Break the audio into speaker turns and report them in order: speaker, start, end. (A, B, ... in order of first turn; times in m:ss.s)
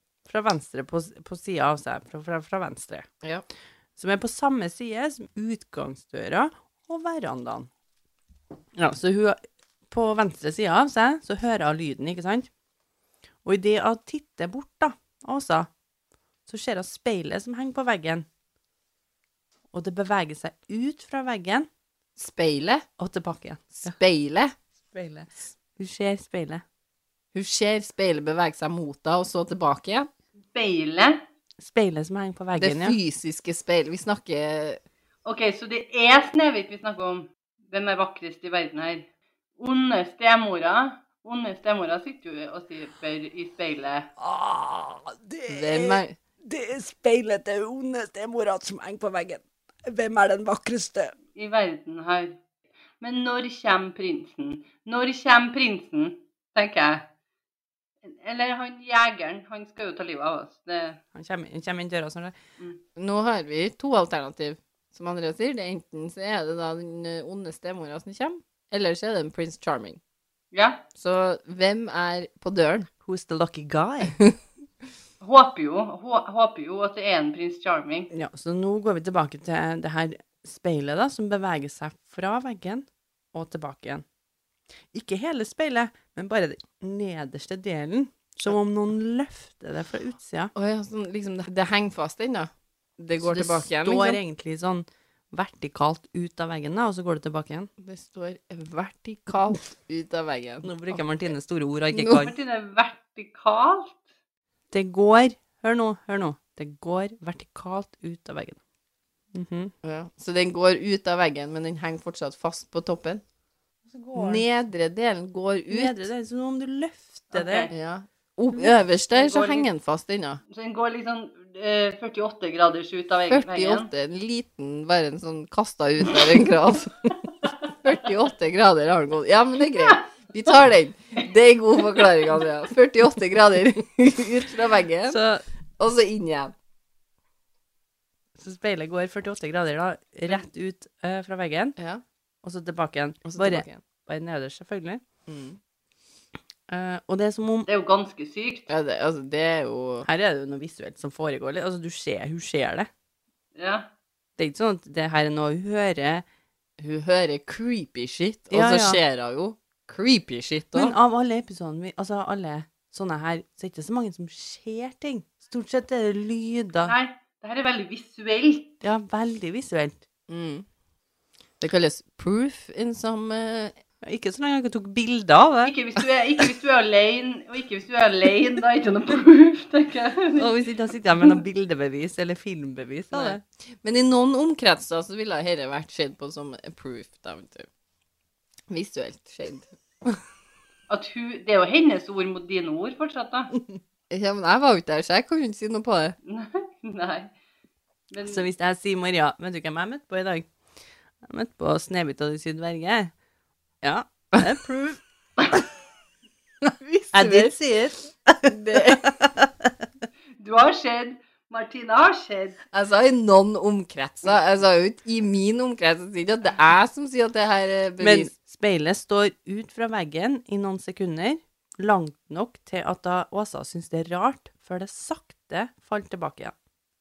0:00.2-0:03.1 A
0:04.0-0:07.7 A
0:08.8-0:09.4 A
0:09.9-0:12.5 A
0:13.4-0:15.7 A
0:16.5-0:18.2 A
0:19.7-0:21.7 A
0:22.2-0:22.8 B
0:23.0-0:24.0 A
0:23.8-0:24.5 B
0:24.9-0:26.6 A
0:27.3-0:30.1 B
0:30.5-0:31.2 C
0:31.6-0:33.0 A
0:32.6-0:34.8 B
0:35.2-0:39.1 C
0:39.6-0:44.1 C
0:44.2-0:51.1 A
0:45.5-0:46.1 B
0:51.3-0:52.4 C
0:53.0-0:57.1 C
0:58.0-1:01.0 C
1:01.1-1:02.4 A
1:03.0-1:10.0 B
1:10.5-1:10.8 C
1:11.0-1:12.9 B
1:13.0-1:14.2 A
1:15.2-1:18.1 C
1:18.1-1:24.0 A
1:24.9-1:30.5 A
1:30.5-1:34.2 B
1:33.2-1:37.7 A
1:37.8-1:41.0 B
1:40.6-1:42.3 A
1:41.9-1:42.2 B
1:42.2-1:44.0 C
1:44.7-1:48.6 A
1:49.3-1:49.7 A
1:49.8-1:53.2 B
1:53.9-1:54.4 A
1:54.1-1:56.1 B
1:55.7-1:57.7 A
1:57.3-1:57.7 C
1:57.7-2:00.4 B
1:59.1-1:59.7 C
2:00.5-2:03.9 C
2:03.3-2:07.1 B
2:07.6-2:15.2 B
2:15.1-2:15.4 A
2:15.8-2:16.5 B
2:18.4-2:21.8 A
2:21.8-2:22.0 B
2:22.4-2:25.0 A
2:23.2-2:23.8 B
2:25.3-2:25.6 B
2:26.7-2:27.7 A
2:27.6-2:28.7 C
2:28.7-2:30.1 B
2:30.0-2:32.9 A
2:33.6-2:33.9 C
2:34.4-2:36.2 A
2:36.8-2:40.9 B
2:38.5-2:39.0 A
2:40.7-2:46.9 A
2:46.8-2:48.7 C
2:48.8-2:50.0 A
2:50.3-2:50.6 B
2:51.6-2:53.7 B
2:54.0-2:56.0 A
2:55.6-3:00.5 C
3:00.4-3:03.4 A
3:03.1-3:07.7 B
3:08.7-3:10.2 B
3:10.9-3:13.5 C
3:14.1-3:16.2 B
3:16.2-3:17.3 C
3:18.1-3:18.5 C
3:18.2-3:20.5 A
3:21.2-3:23.1 A
3:23.8-3:25.0 A
3:26.6-3:27.5 B
3:27.1-3:29.8 A
3:28.5-3:29.2 B
3:30.4-3:32.6 C
3:32.7-3:38.3 B
3:38.0-3:46.5 A